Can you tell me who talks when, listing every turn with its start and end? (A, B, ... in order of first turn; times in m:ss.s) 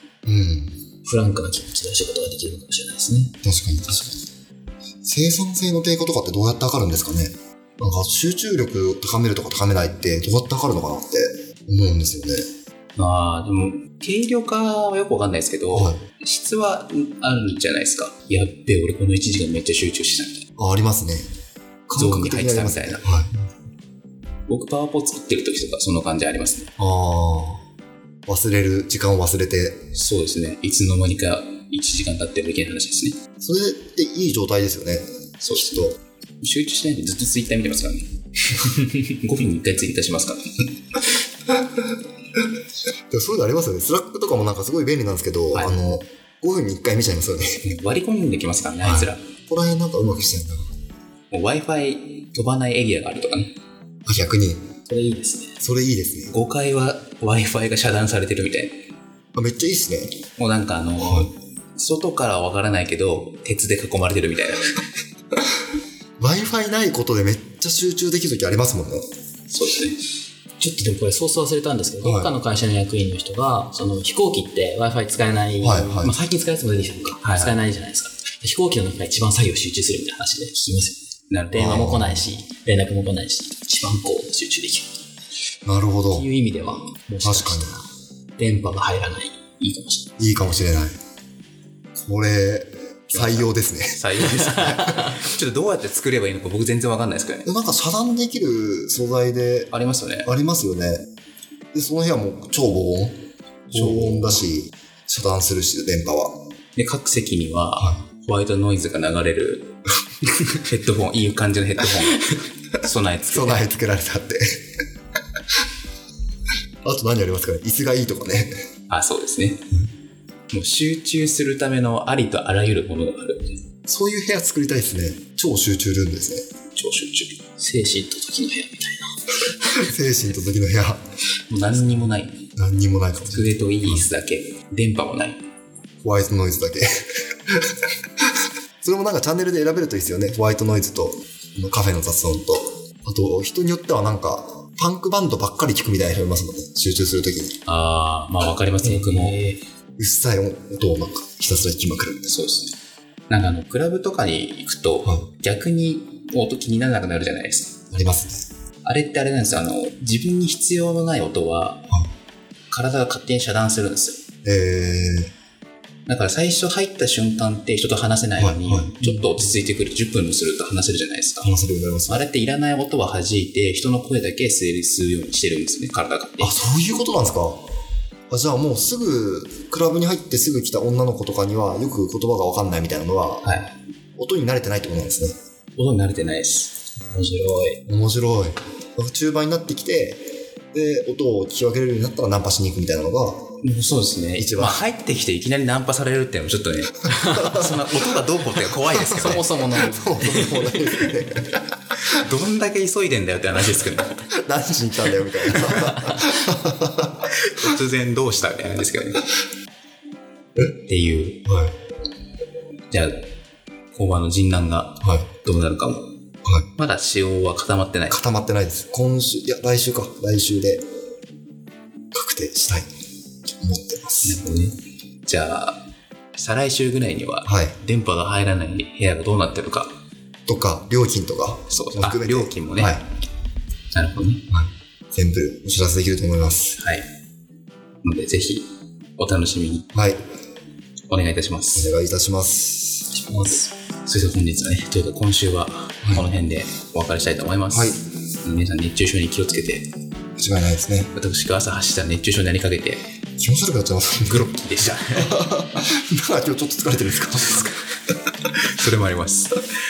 0:00.2-0:00.8 A
0:01.0-0:03.4 B
0:03.4-0:04.2 A
0:05.0-0:12.5 A
0:13.0-0:20.4 C
0:15.7-0:16.0 A
0:20.6-0:21.3 A
0:21.9-0:23.3 A
0:22.0-0:23.1 C
0:24.5-0:26.7 C
0:26.8-0:27.6 A
0:28.3-0:29.9 A
0:29.9-0:33.2 C
0:33.4-0:36.0 A
0:35.4-0:40.7 C
0:43.1-0:47.6 A
0:45.5-0:45.9 C
0:47.6-0:49.3 C
0:48.8-0:50.7 A
0:51.3-0:53.5 C
0:54.1-0:54.7 A
0:54.9-0:55.6 B
0:55.6-0:56.3 A
0:56.3-0:58.8 C
0:59.3-1:00.2 A
1:00.4-1:04.8 C
1:01.0-1:01.3 A
1:06.2-1:09.1 A
1:09.5-1:10.0 C
1:10.6-1:24.9 B
1:12.0-1:12.3 A
1:15.6-1:16.2 A
1:17.2-1:17.6 C
1:21.3-1:22.0 C
1:21.5-1:22.3 A
1:25.6-1:26.3 A
1:26.1-1:30.1 B
1:27.2-1:27.8 A
1:30.2-1:30.9 A
1:31.9-1:35.0 A
1:33.1-1:37.5 C
1:37.4-1:39.7 A
1:39.7-1:40.3 C
1:40.2-1:41.1 A
1:41.7-1:46.3 A
1:43.7-1:44.4 C
1:46.8-1:53.7 C
1:53.3-1:54.7 A
1:56.8-1:58.5 A
1:58.9-1:59.7 C
2:00.5-2:03.6 C
2:03.8-2:06.4 A
2:06.8-2:07.4 C
2:07.6-2:09.2 B
2:09.6-2:11.0 A
2:11.5-2:12.4 C
2:12.6-2:14.1 A
2:13.3-2:15.4 C
2:16.0-2:27.6 A
2:27.7-2:29.4 C
2:28.8-2:29.6 B
2:30.0-2:32.4 A
2:32.3-2:32.8 C
2:33.3-2:37.9 C
2:37.9-2:38.4 A
2:38.8-2:41.8 C
2:42.7-2:44.2 C
2:44.4-2:45.3 A
2:46.1-2:51.5 C
2:48.4-2:49.2 A
2:51.4-2:52.3 A
2:52.1-2:56.6 C
2:56.4-2:57.7 A
2:58.3-3:03.6 A
3:03.4-3:03.7 C
3:04.2-3:05.4 A
3:05.8-3:06.8 C
3:07.0-3:07.8 B
3:07.9-3:13.6 A
3:13.6-3:19.5 C
3:14.4-3:14.8 A
3:17.1-3:17.6 B
3:17.2-3:18.0 A
3:18.9-3:21.6 A
3:19.0-3:21.1 B
3:22.0-3:24.2 C
3:24.3-3:27.3 A
3:25.5-3:26.2 C
3:27.3-3:29.3 C
3:30.9-3:31.4 C
3:31.4-3:31.8 A
3:32.9-3:33.3 C
3:33.9-3:36.1 C
3:35.0-3:35.3 A
3:36.8-3:38.2 C
3:38.1-3:40.8 A
3:42.1-3:42.9 A
3:43.6-3:44.4 A
3:44.2-3:50.0 C
3:47.4-3:47.8 A
3:50.5-3:53.0 A
3:51.7-3:53.0 C
3:53.9-3:54.4 C
3:54.5-3:56.8 A
3:56.8-3:57.1 C
3:58.0-3:59.9 C
3:59.9-4:00.2 A
4:01.1-4:01.9 C
4:01.8-4:03.1 A
4:03.1-4:03.7 B
4:04.1-4:09.9 C
4:06.0-4:06.3 A
4:07.7-4:08.0 A
4:10.4-4:11.1 A
4:11.2-4:13.0 C
4:13.4-4:14.5 A
4:14.2-4:15.4 C
4:15.1-4:18.0 A
4:18.6-4:19.6 C